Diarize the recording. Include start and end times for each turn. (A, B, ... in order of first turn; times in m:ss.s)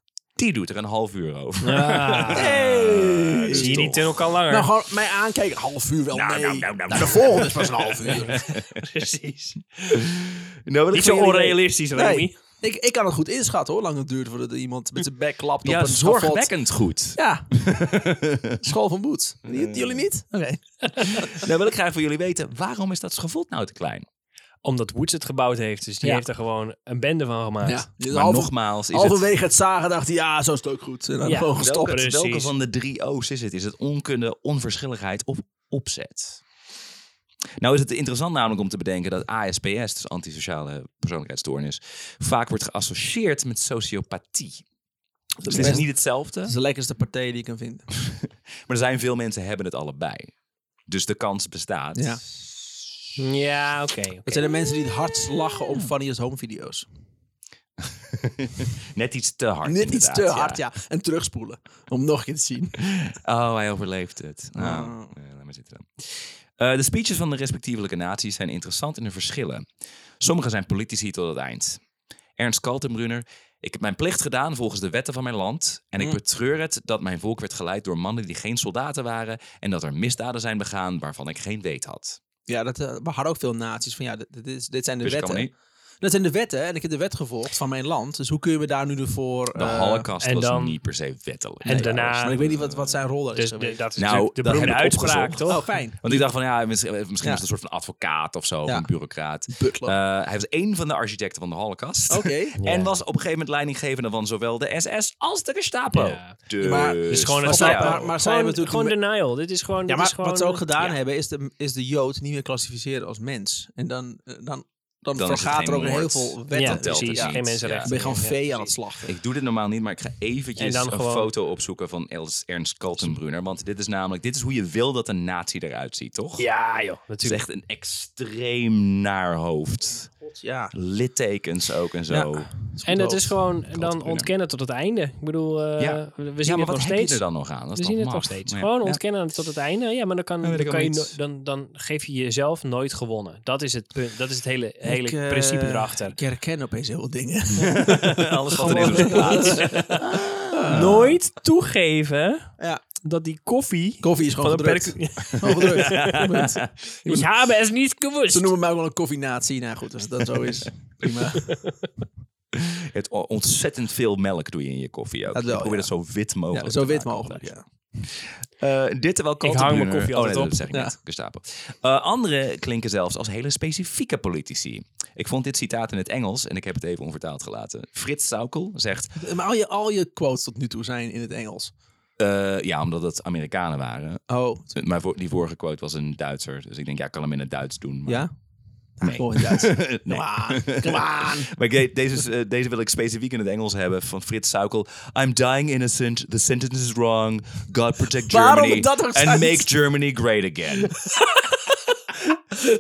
0:00.4-0:04.3 A
0:01.6-0:02.6 B
0:02.3-0:03.8 C
0:03.5-0:04.7 B
0:04.5-0:08.4 C
0:06.1-0:08.8 A
0:08.3-0:10.1 B
0:09.9-0:11.6 A
0:10.9-0:12.4 B
0:12.0-0:16.5 C
0:15.6-0:18.6 A
0:17.2-0:17.5 C
0:18.6-0:21.3 C
0:19.5-0:20.0 A
0:21.0-0:24.0 A
0:24.6-0:27.9 B
0:27.6-0:32.0 C
0:28.1-0:29.2 A
0:31.2-0:32.5 B
0:31.6-0:36.4 A
0:37.6-0:44.6 A
0:45.4-0:47.9 C
0:45.4-0:46.6 A
0:48.0-0:50.3 A
0:50.9-0:52.2 A
0:52.0-0:52.2 C
0:53.2-0:54.5 B
0:54.3-0:56.9 C
0:57.8-1:00.6 A
0:59.6-1:02.8 C
1:02.8-1:09.7 A
1:04.6-1:05.1 C
1:10.2-1:11.8 A
1:12.4-1:22.2 A
1:22.5-1:30.1 C
1:25.0-1:25.5 A
1:29.6-1:33.0 A
1:30.2-1:30.8 B
1:31.6-1:32.5 B
1:31.7-1:34.2 C
1:33.3-1:35.7 B
1:34.0-1:48.1 A
1:35.5-1:36.3 C
1:39.5-1:40.0 C
1:42.1-1:42.6 C
1:42.6-1:42.9 B
1:45.9-1:46.4 B
1:46.6-1:49.0 C
1:47.1-1:51.0 B
1:49.9-1:59.1 C
1:55.2-1:57.9 A
1:56.5-1:58.7 B
1:59.1-2:06.5 A
2:00.6-2:01.3 B
2:06.4-2:07.4 B
2:07.2-2:10.1 A
2:10.2-2:10.8 C
2:10.7-2:12.5 A
2:12.1-2:13.3 C
2:12.9-2:17.2 B
2:13.7-2:14.3 A
2:15.8-2:19.0 A
2:17.8-2:26.2 B
2:20.4-2:21.2 A
2:24.8-2:29.9 C
2:27.6-2:31.2 A
2:28.5-2:30.0 B
2:30.5-2:30.9 C
2:30.7-2:36.3 B
2:34.0-2:37.3 C
2:35.4-2:36.7 A
2:37.0-2:38.5 B
2:38.3-2:41.6 C
2:41.4-2:41.7 B
2:42.5-2:47.5 A
2:45.3-2:45.9 C
2:46.5-2:47.6 C
2:48.1-2:59.2 A
2:49.4-2:50.6 B
2:59.2-3:01.7 C
3:02.2-3:08.3 A
3:04.3-3:04.7 C
3:09.0-3:11.5 C
3:09.0-3:21.0 A
3:18.3-3:19.7 C